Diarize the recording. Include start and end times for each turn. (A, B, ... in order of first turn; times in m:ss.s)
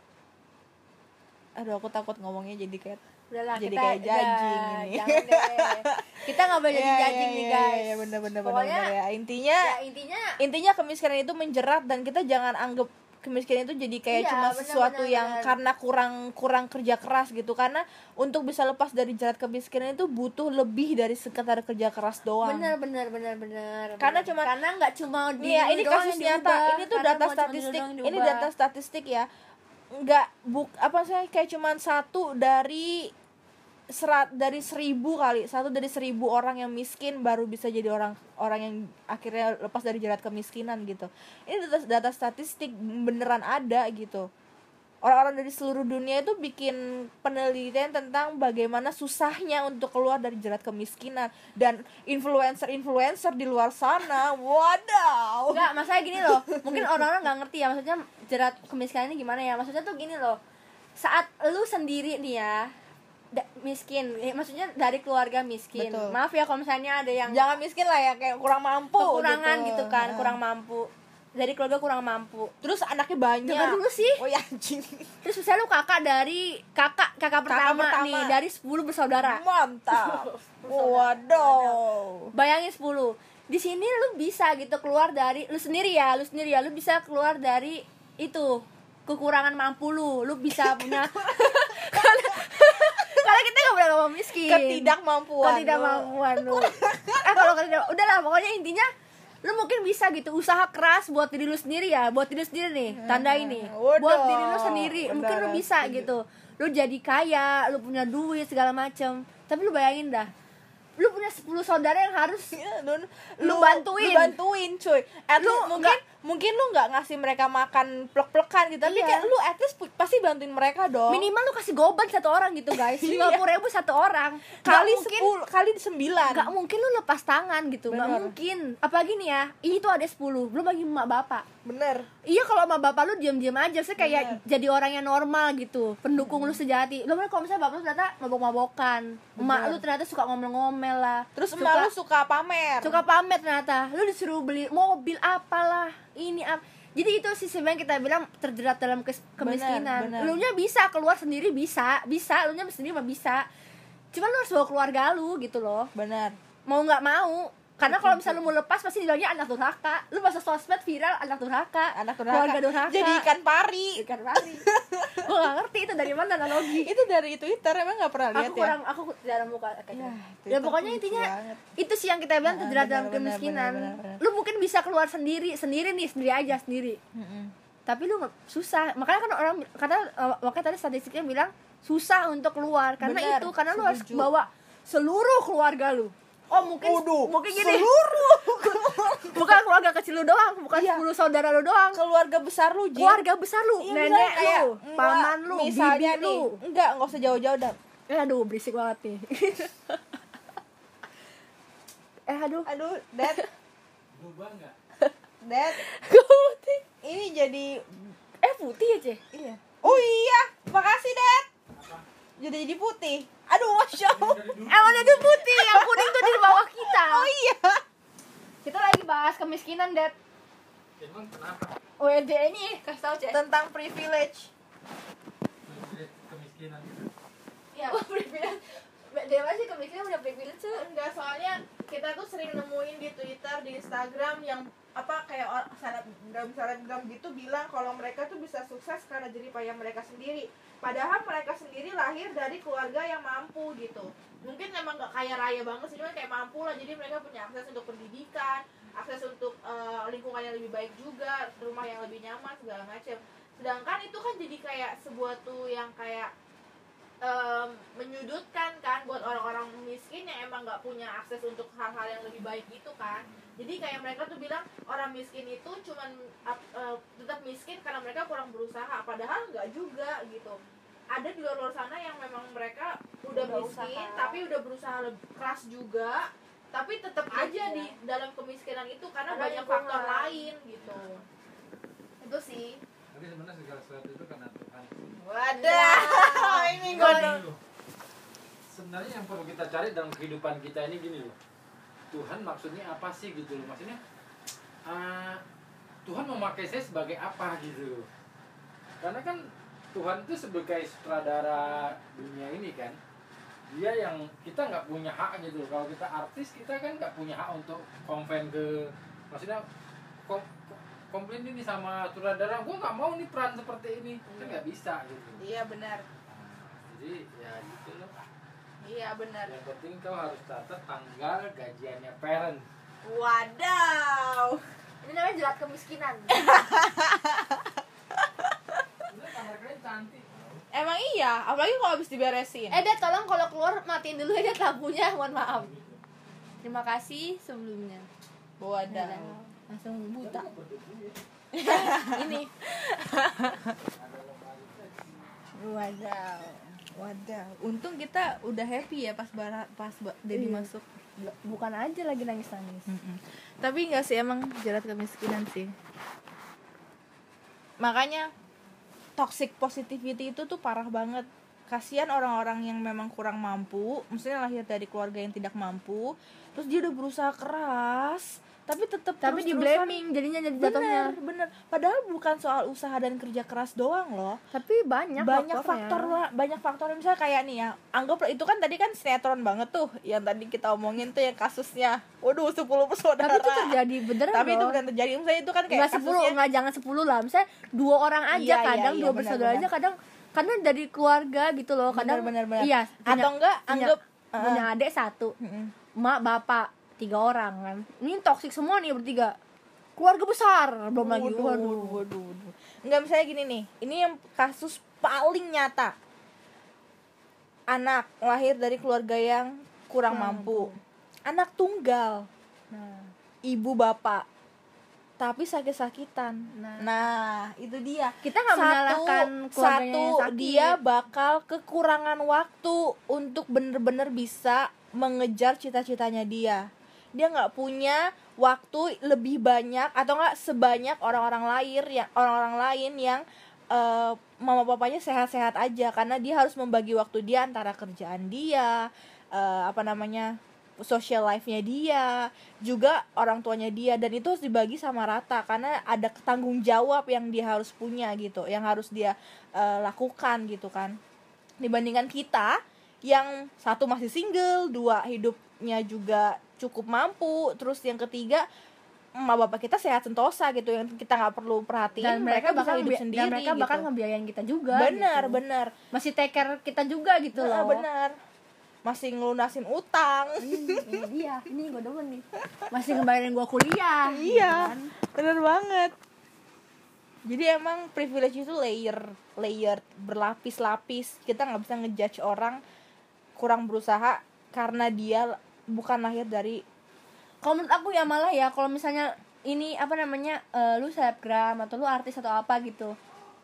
0:01.6-0:03.0 A
0:03.3-0:08.9 B
0:03.6-0:09.8 A
0:09.6-0:10.4 B
0:10.4-0:22.7 A
0:14.1-0:15.5 B
0:22.4-0:28.5 B
0:24.0-0:24.5 A
0:25.4-0:29.3 A
0:29.9-0:33.1 A
0:33.9-0:44.3 A
0:45.0-0:57.0 A
0:55.5-1:00.4 B
1:01.0-1:02.7 B
1:03.3-1:07.4 B
1:05.8-1:06.2 A
1:07.3-1:10.4 A
1:09.0-1:12.5 B
1:12.6-1:15.1 A
1:13.4-1:14.2 B
1:15.2-1:21.8 B
1:17.5-1:18.4 A
1:19.2-1:22.3 A
1:22.3-1:38.9 B
1:30.5-1:33.2 A
1:34.4-1:37.6 A
1:39.4-1:50.3 B
1:42.9-1:46.1 A
1:51.0-1:52.5 B
1:52.5-2:01.3 A
1:53.4-1:54.3 B
1:55.4-1:56.0 B
1:58.8-1:59.3 B
2:01.1-2:05.3 B
2:02.8-2:03.4 A
2:04.6-2:06.5 A
2:06.3-2:11.4 B
2:07.9-2:08.4 A
2:11.6-2:12.1 A
2:12.2-2:21.9 B
2:14.0-2:14.4 A
2:16.2-2:16.6 A
2:19.4-2:19.8 A
2:21.4-2:23.0 A
2:22.8-2:33.4 B
2:29.4-2:30.4 A
2:34.1-2:35.9 B
2:35.9-2:36.4 A
2:36.7-2:43.2 B
2:37.8-2:38.4 A
2:41.9-2:45.3 A
2:44.0-2:46.9 B
2:46.5-2:48.7 A
2:48.3-2:57.0 B
2:49.9-2:51.6 A
2:52.4-2:54.2 A
2:57.1-2:57.5 A
2:57.9-3:12.0 B
3:03.0-3:04.3 A
3:06.5-3:09.6 A
3:10.7-3:11.0 A
3:11.9-3:13.2 A
3:12.9-3:16.6 B
3:13.8-3:17.8 A
3:18.1-3:20.0 B
3:22.3-3:22.7 B
3:22.6-3:23.4 A
3:23.2-3:23.5 B
3:24.1-3:24.8 C
3:25.4-3:25.8 A
3:25.7-3:26.8 B
3:27.0-3:28.1 A
3:28.4-3:29.2 B
3:29.3-3:31.5 A
3:31.8-3:32.0 C
3:32.4-3:37.8 A
3:34.0-3:35.3 C
3:34.7-3:37.3 B
3:38.6-3:40.1 B
3:41.0-3:41.7 C
3:42.0-3:43.4 B
3:43.3-3:44.5 A
3:45.6-3:47.1 C
3:47.8-3:50.8 B
3:50.7-4:16.3 A
4:17.2-4:30.6 A
4:31.1-4:41.2 A
4:33.3-4:34.4 B
4:37.3-4:37.9 B
4:39.3-4:40.5 B
4:42.2-4:42.8 A
4:43.1-4:44.9 C
4:45.2-4:47.4 A
4:45.5-4:47.4 B
4:45.7-4:47.6 C
4:48.7-4:51.4 C
4:52.1-4:54.0 C
4:54.8-4:55.4 C
4:56.0-4:58.1 C
4:59.0-5:03.0 C
5:03.7-5:09.6 C
5:10.2-5:15.4 C
5:15.4-5:16.0 A
5:16.3-5:18.2 C
5:18.8-5:19.5 A
5:19.4-5:22.6 C
5:23.0-5:24.6 A
5:25.0-5:26.5 B
5:26.3-5:28.8 A
5:29.1-5:30.6 C
5:30.7-5:32.8 A
5:32.7-5:35.7 B
5:35.5-5:36.0 C
5:36.6-5:38.1 B
5:38.6-5:39.4 A
5:38.9-5:40.5 B
5:40.2-5:41.2 C
5:41.5-5:42.5 B
5:41.6-5:43.7 A
5:43.7-5:45.3 C
5:45.5-5:46.7 B
5:46.9-5:50.9 A
5:50.3-5:53.0 B
5:52.9-5:55.7 A
5:57.8-5:58.3 A
5:59.2-6:10.0 A
6:09.2-6:11.2 B
6:10.6-6:14.4 A
6:14.5-6:16.2 B
6:15.2-6:26.4 A
6:23.2-6:24.8 B
6:25.7-6:35.3 B
6:28.3-6:29.7 A
6:31.9-6:34.6 A
6:35.4-6:35.7 A
6:36.0-6:39.4 B
6:40.0-6:42.0 B
6:41.0-6:45.9 A
6:47.7-6:50.7 A
6:50.1-6:50.8 B
6:51.3-6:52.3 A
6:52.7-6:53.1 B
6:53.4-6:54.2 A
6:55.2-7:06.6 A
6:56.5-6:56.9 B
6:58.2-7:00.8 B
7:07.2-7:18.8 A
7:19.3-7:31.0 A
7:31.6-7:38.4 A
7:39.2-7:43.9 A
7:42.0-7:45.4 B
7:44.7-7:45.7 A
7:45.9-7:47.8 B
7:47.3-7:48.1 A
7:48.8-7:51.0 A
7:50.4-7:54.9 B
7:54.1-7:55.9 A
7:57.2-8:02.6 A
8:03.4-8:06.6 A
8:07.4-8:13.0 B